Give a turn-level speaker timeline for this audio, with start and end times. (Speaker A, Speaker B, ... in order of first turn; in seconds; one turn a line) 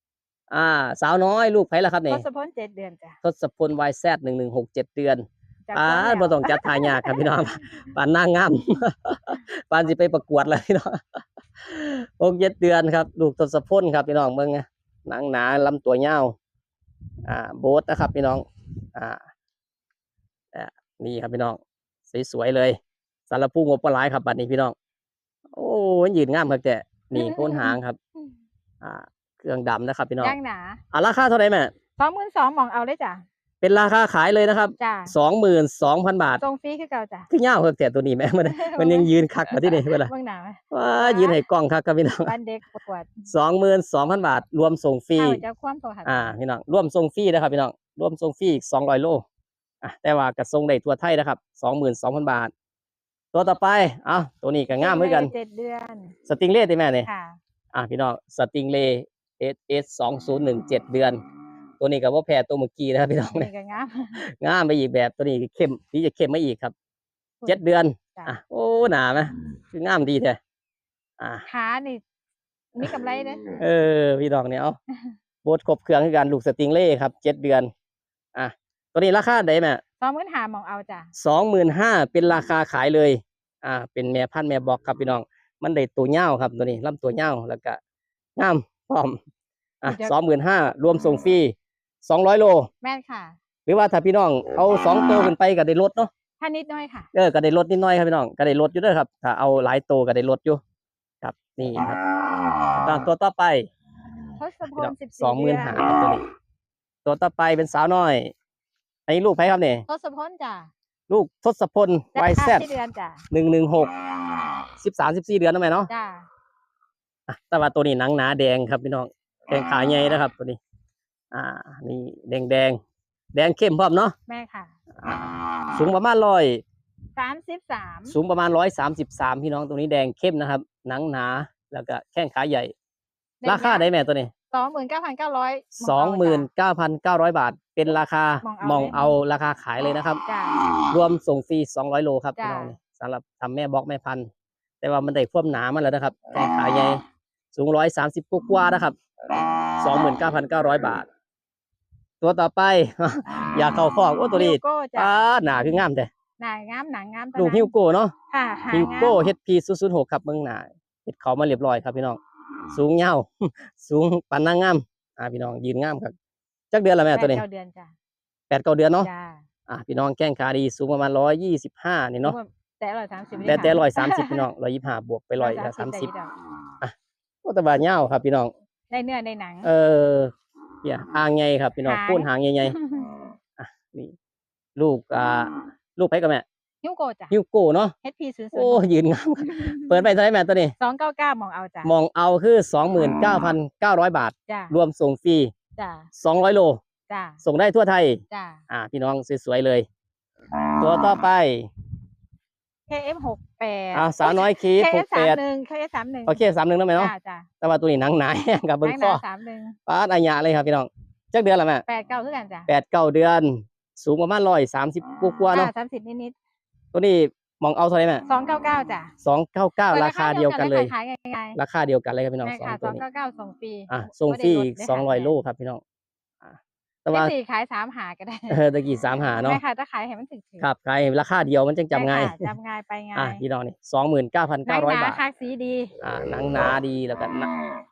Speaker A: 0.5-2.2
Speaker B: 2.1-3.2
Speaker A: 3.2-5.2
Speaker B: 5.7-7.5
Speaker A: 5.7-16.4
Speaker A: 17.2-19.2
Speaker A: 20.5-22.8
Speaker A: 23.3-24.8
Speaker A: 25.5-28.0
Speaker B: 27.1-27.8
Speaker A: 28.8-30.4
Speaker B: 30.2-30.8
Speaker A: 30.9-31.7
Speaker B: 32.0-33.2
Speaker A: 33.6-36.4
Speaker B: 34.8-35.1
Speaker B: 36.4-37.3
Speaker A: 37.3-40.1
Speaker B: 38.4-41.4
Speaker A: 40.7-42.3
Speaker B: 42.2-43.3
Speaker A: 43.3-45.4
Speaker B: 45.2-46.4
Speaker A: 46.1-49.2
Speaker A: 49.8-52.5
Speaker A: 53.3-55.3
Speaker B: 54.8-56.1
Speaker A: 56.3-57.1
Speaker B: 57.0-57.4
Speaker A: 57.7-61.2
Speaker A: 61.8-63.5
Speaker B: 63.3-64.2
Speaker A: 64.2-66.7
Speaker A: 67.5-70.4
Speaker A: 71.2-71.5
Speaker B: 71.5-72.0
Speaker B: 72.8-73.6
Speaker A: 73.6-74.8
Speaker A: 75.4-77.7
Speaker A: 78.3-79.8
Speaker B: 80.0-81.1
Speaker A: 81.2-87.8
Speaker A: 88.4-89.2
Speaker A: 89.8-92.7
Speaker B: 89.8-90.1
Speaker B: 92.8-93.4
Speaker A: 93.7-96.1
Speaker B: 96.4-97.1
Speaker A: 97.1-100.6
Speaker A: 101.2-102.0
Speaker A: 102.6-103.7
Speaker B: 104.4-105.9
Speaker A: 104.7-106.2
Speaker A: 107.0-108.3
Speaker A: 109.1-109.8
Speaker B: 109.9-110.7
Speaker A: 111.1-112.7
Speaker B: 112.1-113.2
Speaker A: 113.3-113.9
Speaker A: 114.8-115.9
Speaker B: 115.9-116.3
Speaker A: 117.3-120.6
Speaker A: 121.3-122.8
Speaker A: 123.3-124.2
Speaker B: 124.3-124.8
Speaker A: 125.0-126.6
Speaker B: 127.2-128.2
Speaker A: 128.1-132.7
Speaker B: 133.4-133.9
Speaker A: 133.4-134.3
Speaker B: 134.5-136.5
Speaker A: 135.8-140.2
Speaker B: 138.4-139.0
Speaker B: 140.2-140.6
Speaker A: 140.9-144.3
Speaker B: 142.4-142.8
Speaker A: 144.8-147.0
Speaker A: 147.5-149.0
Speaker A: 149.8-151.1
Speaker A: 152.2-156.1
Speaker B: 154.3-155.2
Speaker B: 156.4-157.7
Speaker A: 157.4-158.1
Speaker B: 158.3-159.2
Speaker A: 158.7-162.2
Speaker A: 162.7-166.1
Speaker A: 166.7-167.4
Speaker B: 167.2-167.9
Speaker A: 168.5-169.1
Speaker B: 169.0-169.4
Speaker A: 169.7-172.4
Speaker B: 172.2-174.5
Speaker A: 173.4-176.1
Speaker B: 175.4-176.3
Speaker A: 177.4-178.5
Speaker B: 178.9-179.7
Speaker A: 179.6-182.8
Speaker B: 181.8-183.1
Speaker A: 183.6-184.2
Speaker A: 184.8-186.4
Speaker B: 186.8-187.4
Speaker A: 187.3-187.9
Speaker B: 188.0-188.8
Speaker A: 188.5-190.8
Speaker B: 189.4-190.0
Speaker B: 190.8-191.9
Speaker A: 191.8-195.5
Speaker B: 194.5-194.7
Speaker B: 195.8-196.1
Speaker A: 196.2-196.8
Speaker B: 197.1-197.4
Speaker A: 197.4-199.9
Speaker B: 198.3-198.6
Speaker A: 200.8-201.7
Speaker B: 202.9-206.4
Speaker A: 203.9-205.4
Speaker A: 206.3-209.2
Speaker B: 207.0-207.5
Speaker B: 208.8-209.8
Speaker A: 209.9-211.8
Speaker B: 211.9-212.7
Speaker A: 212.7-215.7
Speaker B: 215.5-216.3
Speaker A: 216.9-218.2
Speaker B: 218.3-219.1
Speaker A: 219.2-220.9
Speaker B: 219.9-221.6
Speaker A: 221.6-223.0
Speaker B: 222.4-225.3
Speaker A: 223.9-225.8
Speaker A: 226.4-227.3
Speaker B: 227.1-228.6
Speaker A: 228.5-229.6
Speaker B: 229.4-230.7
Speaker A: 230.6-232.5
Speaker B: 231.9-233.4
Speaker A: 233.2-235.2
Speaker B: 234.7-235.9
Speaker A: 236.0-237.6